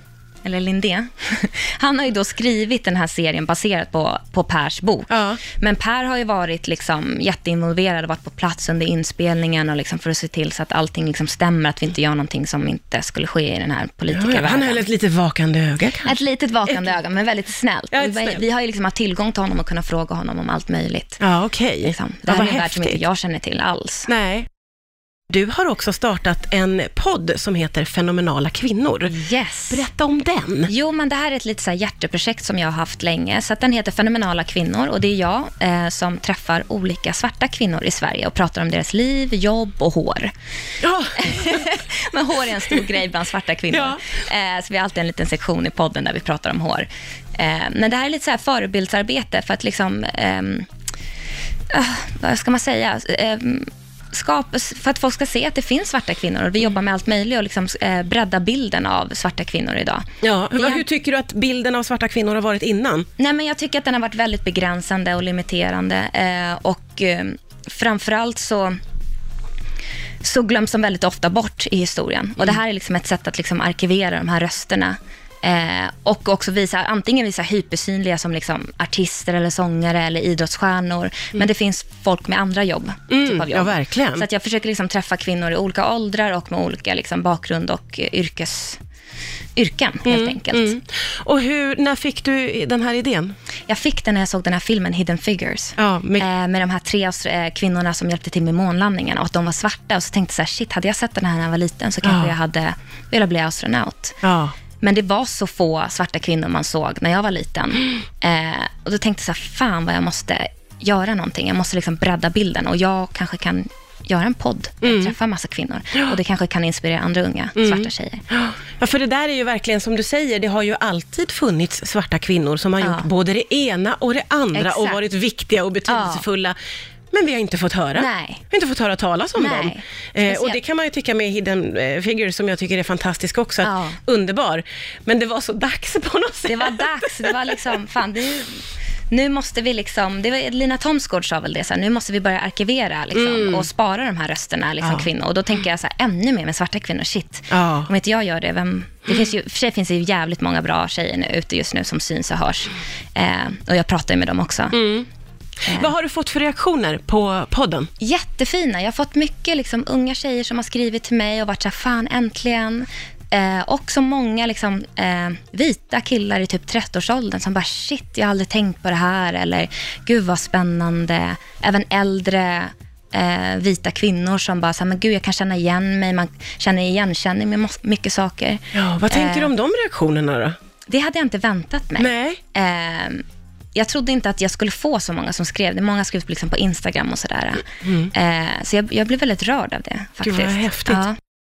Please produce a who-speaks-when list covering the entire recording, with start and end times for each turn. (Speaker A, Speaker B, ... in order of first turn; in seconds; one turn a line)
Speaker A: 0.4-14.8
Speaker B: 5.1-5.4
Speaker B: 14.1-16.1
Speaker A: 16.0-21.2
Speaker B: 17.9-18.4
Speaker B: 21.2-23.0
Speaker A: 21.8-24.1
Speaker B: 24.1-24.5
Speaker B: 25.3-29.2
Speaker A: 29.1-29.9
Speaker B: 29.7-30.7
Speaker A: 30.7-40.3
Speaker B: 40.8-41.6
Speaker A: 41.2-50.7
Speaker B: 43.7-44.0
Speaker A: 51.7-60.0
Speaker B: 60.2-63.1
Speaker A: 60.6-60.9
Speaker A: 63.2-68.8
Speaker A: 70.2-88.8
Speaker B: 83.1-84.3
Speaker A: 89.6-90.8
Speaker B: 90.1-93.4
Speaker A: 93.7-104.2
Speaker B: 95.8-96.3
Speaker B: 102.0-102.3
Speaker B: 104.2-104.5
Speaker A: 104.8-118.2
Speaker B: 114.8-115.1
Speaker B: 117.6-126.6
Speaker A: 122.8-123.1
Speaker A: 124.5-125.0
Speaker A: 125.9-126.2
Speaker B: 127.1-137.5
Speaker A: 128.0-128.4
Speaker A: 129.4-130.6
Speaker A: 133.6-134.0
Speaker A: 136.5-154.8
Speaker B: 143.2-143.7
Speaker B: 144.8-145.1
Speaker B: 147.5-147.9
Speaker B: 154.7-155.1
Speaker A: 155.7-155.9
Speaker B: 155.7-157.9
Speaker A: 158.0-179.5
Speaker B: 178.7-180.6
Speaker A: 180.9-191.2
Speaker B: 182.0-182.4
Speaker B: 187.8-188.1
Speaker B: 190.2-191.0